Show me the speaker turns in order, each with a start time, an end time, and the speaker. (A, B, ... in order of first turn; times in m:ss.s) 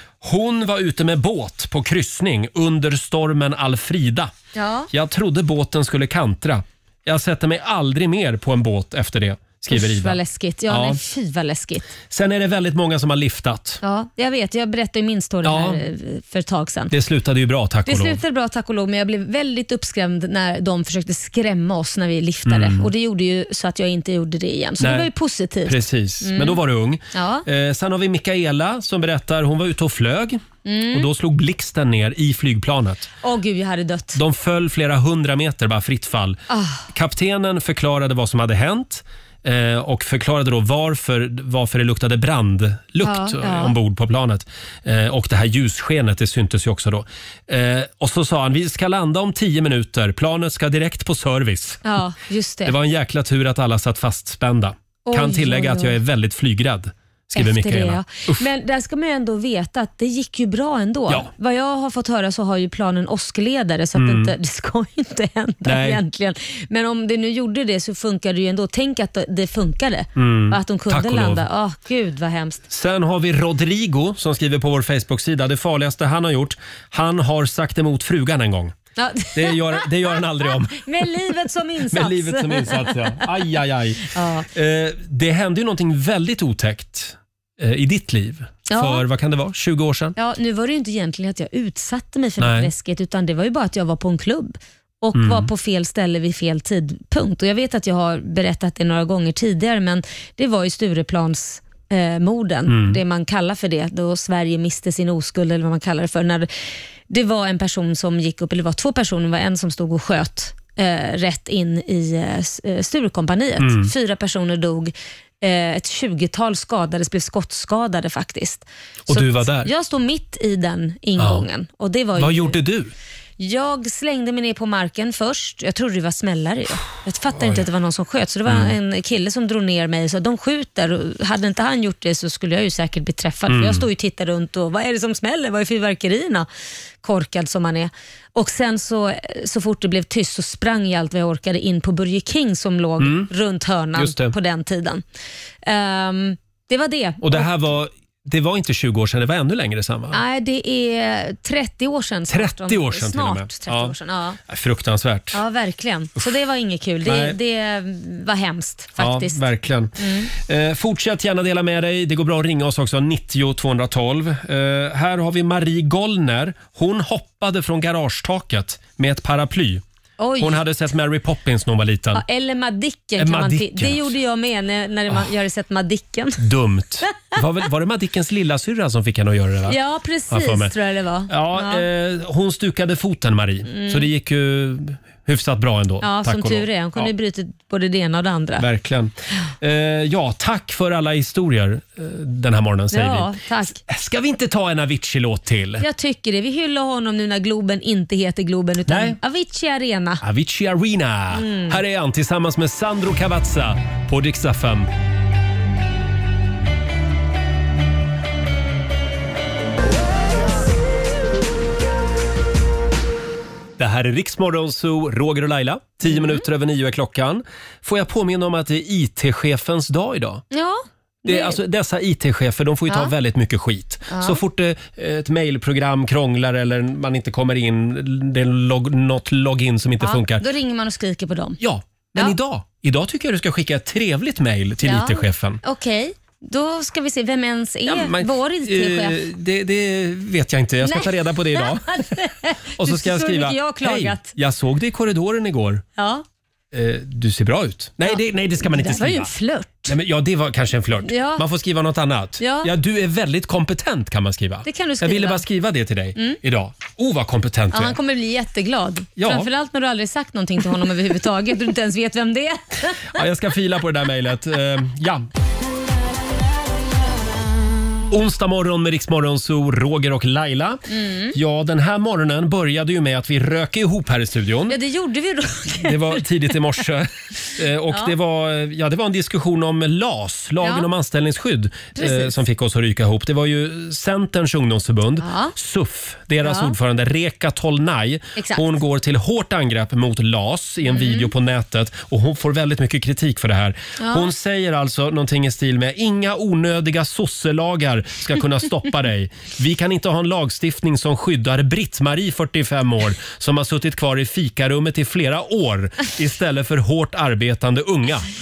0:00.2-0:04.3 A
0:04.5-0:04.9 B
0:04.9-0:11.0 A
0:09.7-0:11.9 B
0:12.1-0:13.8 A
0:13.8-0:16.9 B
0:15.4-0:15.8 A
0:16.9-0:18.2 A
0:17.8-0:26.6 B
0:22.4-0:22.9 A
0:24.8-0:25.1 A
0:25.6-0:33.1 A
0:27.1-0:27.4 B
0:30.6-0:31.1 B
0:33.2-0:34.2 B
0:34.1-0:51.8 A
0:36.5-0:36.9 B
0:43.0-0:43.8 B
0:51.8-0:52.7 B
0:52.6-0:58.4 A
0:55.0-0:56.0 B
0:57.3-1:12.6 B
1:03.9-1:04.3 A
1:05.6-1:06.0 A
1:10.2-1:11.4 A
1:12.7-1:18.7 A
1:19.0-1:20.2 B
1:19.3-1:21.1 A
1:20.7-1:23.2 B
1:21.9-1:30.2 A
1:24.1-1:24.5 B
1:28.7-1:29.0 B
1:30.2-1:46.5 B
1:32.4-1:32.7 A
1:35.1-1:35.5 A
1:42.7-1:43.0 A
1:47.1-2:02.6 B
1:53.6-1:53.9 A
1:59.1-1:59.7 A
2:01.2-2:01.4 A
2:02.2-2:02.9 A
2:03.4-2:16.5 B
2:08.5-2:08.7 A
2:13.5-2:13.8 A
2:17.0-2:25.0 B
2:23.0-2:23.3 A
2:23.9-2:24.4 A
2:25.6-2:27.5 B
2:27.2-2:30.2 A
2:30.1-2:34.4 B
2:32.3-2:33.9 A
2:34.5-2:35.4 A
2:35.3-2:39.4 B
2:37.0-2:37.4 A
2:39.0-2:49.8 A
2:40.0-2:40.3 B
2:50.2-2:50.6 B
2:50.4-2:52.2 A
2:52.1-2:56.4 B
2:53.2-2:54.1 A
2:56.4-2:59.8 A
2:59.7-3:01.8 B
3:00.3-3:00.7 A
3:01.3-3:07.1 A
3:03.7-3:04.1 B
3:06.0-3:08.6 B
3:08.6-3:15.8 A
3:12.9-3:13.8 B
3:15.8-3:20.2 B
3:18.9-3:19.2 A
3:20.2-3:24.9 A
3:21.3-3:21.8 B
3:33.8-3:40.4 A
3:36.1-3:36.4 B
3:40.5-3:41.6 B
3:41.2-3:50.4 A
3:44.1-3:44.4 B
3:50.0-3:51.6 B
3:51.6-3:55.6 A
3:54.8-3:59.2 B
3:57.8-4:02.1 A
4:00.8-4:04.3 B
4:02.8-4:05.8 A
4:06.0-4:06.2 B
4:06.7-4:09.3 A
4:08.0-4:09.9 B
4:09.9-4:18.0 A
4:11.0-4:11.4 B
4:12.4-4:12.7 B
4:14.6-4:15.4 B
4:17.7-4:23.2 B
4:19.2-4:19.5 A
4:23.1-4:25.3 A
4:28.1-4:30.8 A
4:30.9-4:31.4 B
4:31.3-4:34.8 A
4:34.7-4:36.6 B
4:35.7-5:08.3 A
4:40.6-4:40.9 B
4:41.9-4:42.3 B
4:45.2-4:45.5 B
4:46.4-4:46.7 B
4:48.4-4:48.6 B
4:50.9-4:51.3 B
4:54.0-4:54.3 B